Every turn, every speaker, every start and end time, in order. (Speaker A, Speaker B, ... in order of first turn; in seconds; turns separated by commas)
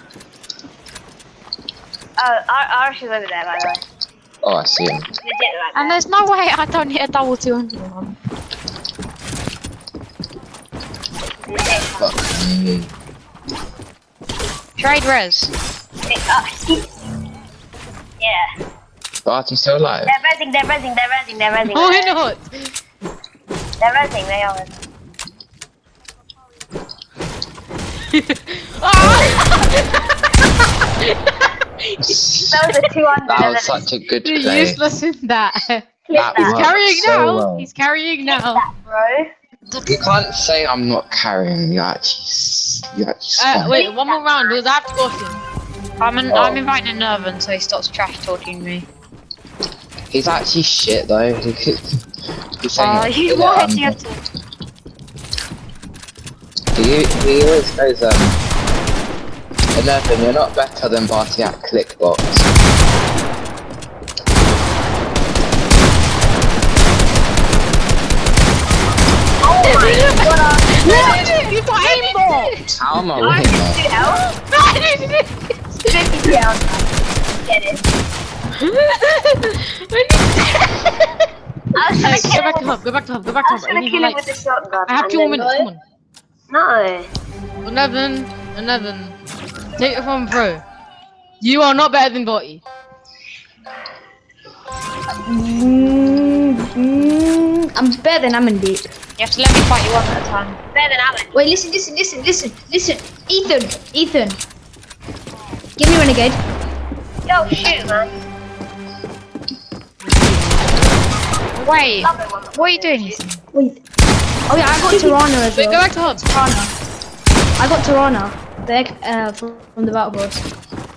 Speaker A: 2.2-3.8, Speaker B: 4.4-5.1, Speaker A: 5.2-6.0, Speaker C: 5.7-8.1, Speaker A: 11.4-12.2, Speaker B: 12.0-12.9, Speaker C: 14.8-15.5, Speaker A: 16.1-16.9, Speaker A: 18.2-18.5, Speaker B: 19.2-20.1, Speaker A: 20.0-22.2, Speaker D: 21.6-22.7, Speaker A: 23.8-24.8, Speaker D: 28.1-32.2, Speaker B: 29.0-29.4, Speaker B: 32.0-32.6, Speaker A: 32.5-33.9, Speaker B: 33.3-34.8, Speaker D: 34.2-38.6, Speaker A: 36.1-36.6, Speaker B: 36.1-37.7, Speaker A: 38.2-39.3, Speaker C: 39.7-40.0, Speaker B: 39.9-43.8, Speaker D: 43.4-45.4, Speaker A: 43.7-44.7, Speaker C: 46.0-48.9, Speaker B: 46.3-46.6, Speaker B: 50.1-52.0, Speaker B: 52.6-54.0, Speaker C: 52.7-53.8, Speaker A: 53.2-54.0, Speaker B: 56.7-58.4, Speaker B: 59.7-62.5, Speaker A: 69.4-71.3, Speaker D: 69.6-70.3, Speaker D: 70.8-72.7, Speaker A: 71.8-72.4, Speaker B: 72.7-73.8, Speaker A: 73.2-74.2, Speaker D: 74.0-75.9, Speaker A: 75.8-77.8, Speaker D: 78.6-81.1, Speaker A: 81.7-82.7, Speaker D: 82.0-84.2, Speaker A: 83.4-85.7, Speaker D: 84.9-85.8, Speaker A: 86.5-87.1, Speaker D: 87.6-89.2, Speaker D: 89.8-90.6, Speaker D: 91.4-92.6, Speaker E: 95.2-98.9, Speaker C: 99.2-100.6, Speaker A: 100.7-101.4, Speaker E: 101.3-104.4, Speaker E: 105.8-106.4, Speaker A: 107.2-108.1, Speaker D: 110.0-111.1, Speaker C: 111.5-113.4, Speaker A: 112.0-113.2, Speaker E: 113.5-113.8, Speaker E: 114.5-116.7, Speaker A: 114.8-115.2, Speaker D: 115.5-116.2, Speaker E: 117.6-120.4